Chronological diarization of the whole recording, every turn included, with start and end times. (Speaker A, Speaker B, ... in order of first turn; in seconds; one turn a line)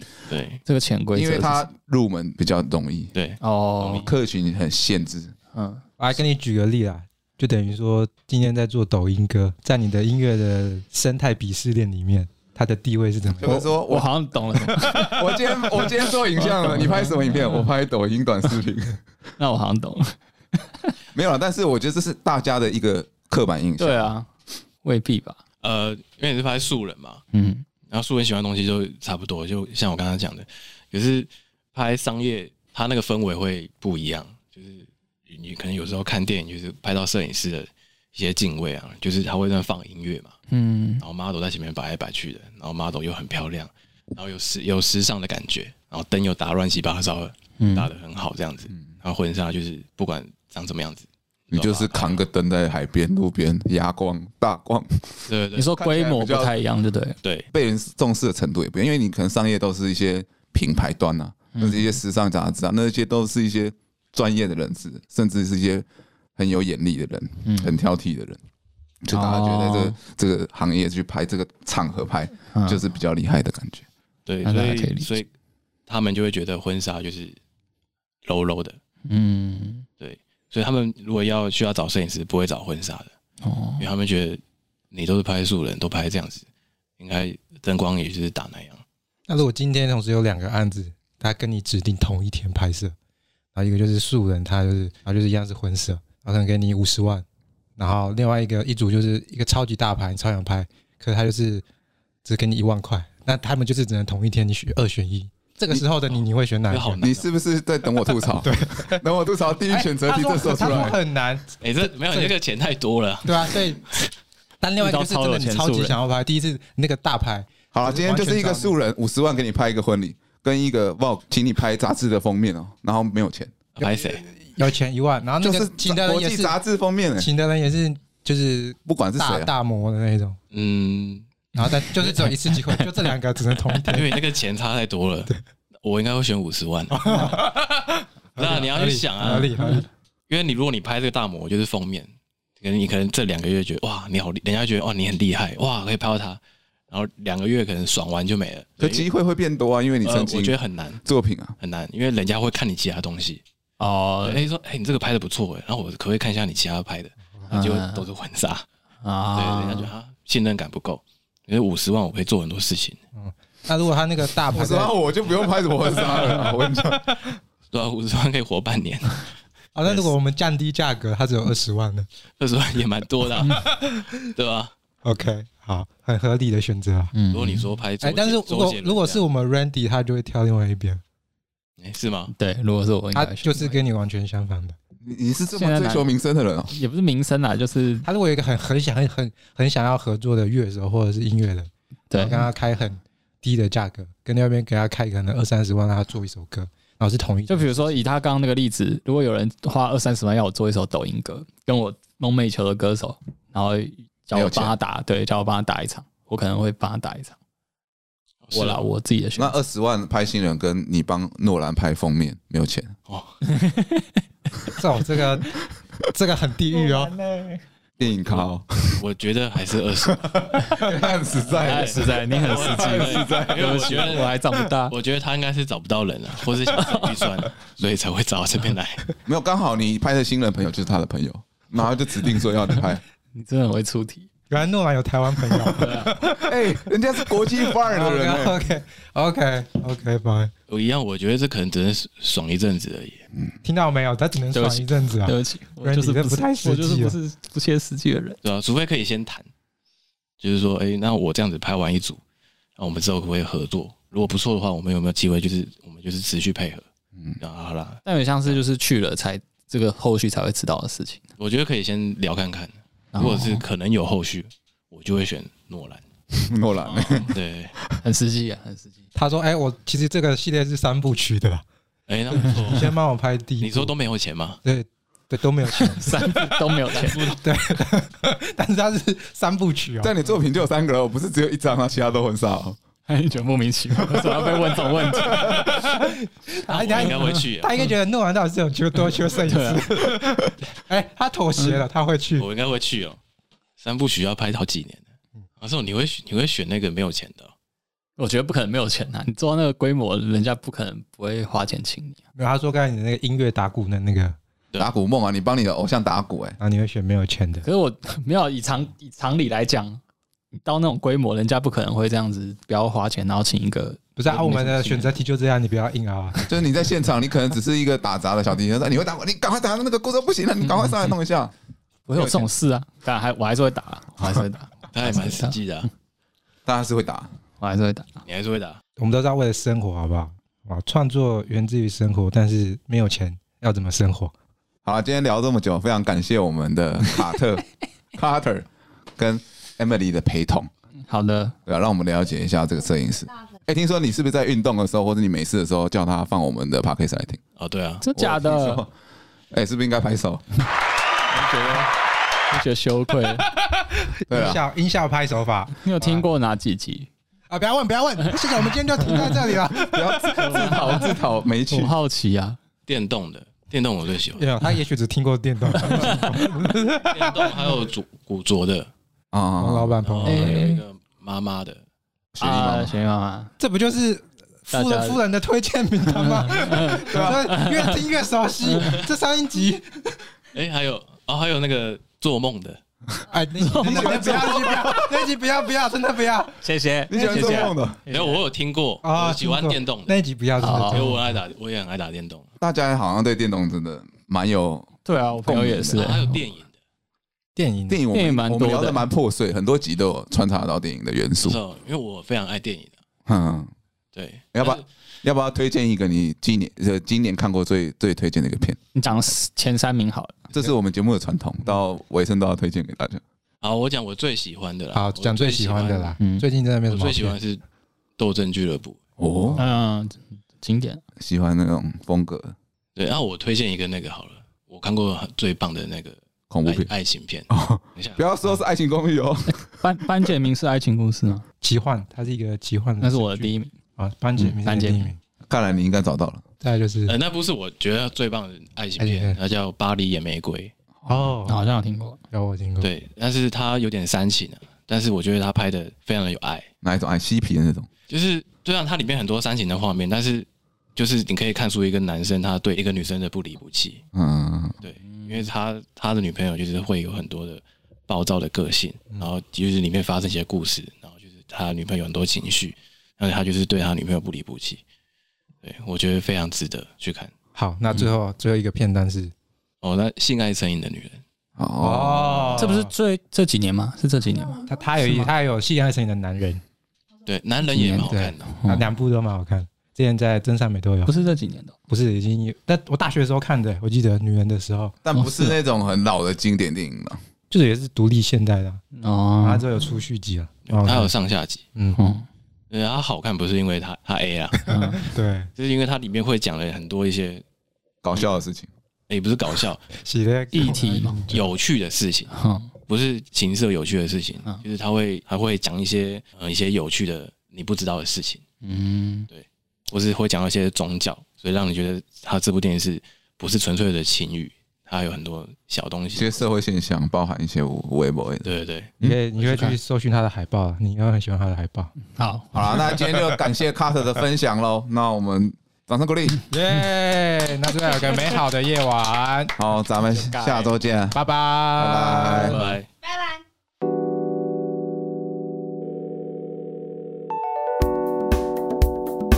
Speaker A: 0.3-0.6
Speaker B: 0.7-1.7
Speaker C: 1.1-3.1
Speaker A: 3.1-4.1
Speaker B: 3.4-4.1
Speaker C: 4.0-5.3
Speaker B: 5.5-5.8
Speaker D: 6.0-13.7
Speaker C: 13.4-19.0
Speaker B: 13.4-17.7
Speaker B: 19.4-20.9
Speaker C: 21.1-24.1
Speaker B: 23.8-24.3
Speaker B: 24.8-25.4
Speaker A: 25.6-27.2
Speaker B: 27.3-27.7
Speaker A: 27.9-40.4
Speaker B: 40.5-41.0
Speaker A: 41.0-52.2
Speaker B: 47.6-47.9
Speaker C: 51.5-56.5
Speaker A: 55.3-55.7
Speaker B: 55.5-57.2
Speaker A: 57.2-57.5
Speaker C: 57.5-65.8
Speaker B: 61.5-62.0
Speaker C: 66.4-68.4
Speaker B: 67.5-67.7
Speaker C: 69.0-73.8
Speaker B: 69.1-70.0
Speaker B: 72.5-72.8
Speaker A: 74.3-75.3
Speaker B: 74.5-75.1
Speaker A: 75.9-77.4
Speaker A: 78.2-78.8
Speaker B: 79.1-79.9
Speaker A: 80.0-83.1
Speaker B: 83.4-83.9
Speaker A: 83.8-84.4
Speaker A: 84.9-86.5
Speaker A: 87.0-88.8
Speaker D: 89.3-93.0
Speaker D: 93.5-97.2
Speaker D: 97.8-101.6
Speaker D: 102.2-107.0
Speaker A: 106.7-107.3
Speaker C: 107.0-111.0
Speaker D: 108.3-109.0
Speaker D: 109.7-112.3
Speaker A: 111.6-114.1
Speaker D: 113.2-113.9
Speaker D: 114.6-118.8
Speaker B: 114.8-116.0
Speaker C: 117.7-123.5
Speaker A: 123.8-124.3
Speaker D: 123.8-126.6
Speaker C: 125.4-127.3
Speaker D: 127.2-130.4
Speaker C: 128.9-129.5
Speaker A: 130.5-131.3
Speaker D: 131.6-134.2
Speaker A: 132.0-132.3
Speaker A: 133.7-137.5
Speaker D: 136.9-139.9
Speaker A: 138.4-139.7
Speaker B: 139.6-139.9
Speaker A: 140.3-149.1
Speaker C: 148.8-151.6
Speaker A: 150.0-151.0
Speaker A: 151.6-153.4
Speaker B: 153.8-154.4
Speaker A: 154.2-158.7
Speaker B: 157.5-158.1
Speaker B: 159.0-159.9
Speaker A: 159.4-163.0
Speaker D: 163.2-164.9
Speaker C: 164.5-167.1
Speaker D: 166.3-167.4
Speaker A: 167.7-169.3
Speaker D: 169.8-172.1
Speaker A: 169.8-170.1
Speaker A: 172.4-174.7
Speaker D: 173.5-174.1
Speaker D: 175.0-177.1
Speaker B: 177.1-177.8
Speaker A: 177.3-179.2
Speaker D: 178.0-181.0
Speaker A: 181.8-182.3
Speaker B: 182.3-183.8
Speaker D: 183.1-184.8
Speaker C: 185.0-186.7
Speaker B: 185.5-186.1
Speaker B: 186.7-188.1
Speaker D: 188.1-197.9
Speaker B: 192.1-192.5
Speaker B: 197.5-207.4
Speaker C: 204.3-204.7
Speaker A: 208.5-208.8
Speaker B: 208.5-209.6
Speaker C: 209.4-212.9
Speaker A: 213.1-213.4
Speaker B: 213.4-214.2
Speaker D: 214.8-215.6
Speaker D: 216.1-217.6
Speaker C: 218.0-219.0
Speaker A: 218.3-220.4
Speaker C: 220.1-224.1
Speaker B: 221.6-225.0
Speaker A: 221.6-224.3
Speaker A: 224.9-229.1
Speaker B: 226.8-227.1
Speaker C: 229.3-233.0
Speaker B: 233.3-234.3
Speaker D: 234.5-240.5
Speaker B: 235.8-236.1
Speaker C: 236.4-238.6
Speaker A: 240.7-243.2
Speaker D: 243.6-247.2
Speaker B: 244.5-248.4
Speaker A: 248.4-249.5
Speaker A: 250.4-252.2
Speaker A: 252.8-256.9
Speaker A: 257.4-258.6
Speaker B: 258.1-261.2
Speaker A: 261.4-266.0
Speaker B: 263.1-263.6
Speaker C: 266.3-267.3
Speaker A: 266.8-267.8
Speaker B: 268.0-269.0
Speaker D: 269.1-271.6
Speaker A: 272.1-273.0
Speaker D: 272.4-273.9
Speaker A: 273.6-274.6
Speaker D: 274.6-280.2
Speaker B: 275.8-277.3
Speaker A: 276.9-277.4
Speaker C: 280.0-282.8
Speaker B: 283.1-285.7
Speaker C: 284.2-284.5
Speaker C: 285.3-285.7
Speaker D: 285.4-292.5
Speaker A: 286.7-287.9
Speaker B: 287.0-287.9
Speaker B: 289.3-289.9
Speaker B: 291.6-291.8
Speaker A: 292.4-293.2
Speaker A: 293.8-295.0
Speaker A: 295.6-297.5
Speaker B: 298.2-302.2
Speaker D: 302.4-304.4
Speaker C: 304.8-306.6
Speaker D: 306.6-307.7
Speaker B: 307.6-310.0
Speaker B: 310.6-315.1
Speaker D: 314.2-316.5
Speaker C: 316.5-321.5
Speaker B: 320.8-321.1
Speaker B: 322.1-325.6
Speaker C: 322.1-322.5
Speaker A: 324.9-325.9
Speaker C: 326.7-327.3
Speaker B: 327.6-328.2
Speaker A: 328.3-328.8
Speaker D: 329.0-334.3
Speaker C: 334.9-337.6
Speaker C: 338.1-340.7
Speaker B: 341.1-341.6
Speaker C: 341.7-347.4
Speaker A: 347.6-348.0
Speaker B: 348.0-348.8
Speaker C: 348.1-348.9
Speaker C: 349.5-350.4
Speaker B: 351.3-351.9
Speaker B: 352.5-353.5
Speaker D: 353.5-356.2
Speaker C: 354.3-354.6
Speaker B: 355.8-357.1
Speaker D: 357.5-361.0
Speaker C: 359.5-361.9
Speaker B: 360.4-361.2
Speaker B: 361.7-362.6
Speaker A: 362.9-364.5
Speaker D: 364.4-367.7
Speaker A: 367.0-368.9
Speaker C: 369.3-370.0
Speaker D: 369.6-370.6
Speaker A: 370.0-371.8
Speaker B: 370.2-370.8
Speaker C: 372.4-373.0
Speaker B: 372.4-373.5
Speaker D: 373.6-380.2
Speaker B: 374.7-375.2
Speaker B: 376.2-378.0
Speaker C: 376.9-377.5
Speaker B: 378.7-379.0
Speaker A: 380.5-382.8
Speaker D: 383.3-386.6
Speaker B: 383.6-384.2
Speaker C: 383.7-385.3
Speaker B: 386.6-388.4
Speaker C: 387.1-388.0
Speaker D: 387.1-387.7
Speaker A: 388.1-390.1
Speaker D: 389.0-391.4
Speaker B: 390.6-391.1
Speaker A: 390.9-392.5
Speaker C: 392.6-396.1
Speaker B: 395.1-396.4
Speaker A: 395.9-396.8
Speaker D: 397.6-398.0
Speaker C: 397.9-401.6
Speaker B: 398.1-399.1
Speaker A: 401.4-402.9
Speaker C: 403.3-403.7
Speaker A: 404.1-404.9
Speaker C: 404.5-408.8
Speaker B: 408.9-410.4
Speaker C: 410.5-413.2
Speaker A: 413.6-416.2
Speaker D: 414.9-417.4
Speaker B: 416.2-416.5
Speaker A: 416.9-417.6
Speaker A: 418.2-419.0
Speaker C: 419.2-419.6
Speaker B: 419.6-421.0
Speaker C: 421.2-422.6
Speaker A: 423.0-428.2
Speaker C: 426.5-426.9
Speaker C: 427.5-429.8
Speaker B: 429.7-431.5
Speaker D: 431.6-435.2
Speaker B: 433.0-433.7
Speaker B: 434.4-435.1
Speaker C: 435.5-436.4
Speaker D: 436.6-437.2
Speaker A: 437.1-440.7
Speaker D: 439.0-439.4
Speaker C: 441.0-441.3
Speaker D: 441.1-441.6
Speaker B: 441.5-442.2
Speaker D: 442.3-442.9
Speaker A: 442.8-446.7
Speaker C: 446.8-447.9
Speaker A: 448.1-454.0
Speaker C: 454.1-454.8
Speaker A: 454.8-464.8
Speaker B: 455.1-455.5
Speaker A: 465.6-467.3
Speaker D: 467.6-469.3
Speaker A: 469.8-471.2
Speaker C: 471.6-472.7
Speaker D: 471.8-472.9
Speaker B: 472.6-475.3
Speaker D: 474.6-476.6
Speaker A: 477.3-478.6
Speaker B: 477.7-478.9
Speaker D: 478.1-481.1
Speaker B: 481.1-481.8
Speaker D: 481.9-485.0
Speaker C: 485.1-487.2
Speaker B: 485.1-485.6
Speaker D: 487.5-488.8
Speaker B: 489.0-489.7
Speaker D: 489.4-491.1
Speaker A: 490.7-491.6
Speaker B: 491.9-492.3
Speaker A: 492.7-494.7
Speaker B: 494.7-495.0
Speaker D: 494.7-495.5
Speaker A: 495.6-497.4
Speaker C: 498.0-498.7
Speaker A: 499.1-499.9
Speaker D: 500.0-501.4
Speaker B: 500.5-501.2
Speaker A: 501.3-502.3
Speaker B: 502.3-502.7
Speaker A: 502.9-508.4
Speaker B: 508.6-509.3
Speaker A: 509.3-516.4
Speaker C: 516.1-519.2
Speaker A: 518.4-518.9
Speaker D: 519.0-521.9
Speaker B: 519.4-519.8
Speaker B: 522.1-522.5
Speaker C: 522.5-526.4
Speaker D: 522.9-523.3
Speaker D: 526.5-529.5
Speaker C: 529.6-531.2
Speaker B: 530.1-530.7
Speaker D: 531.1-532.6
Speaker C: 531.7-532.6
Speaker A: 532.5-532.9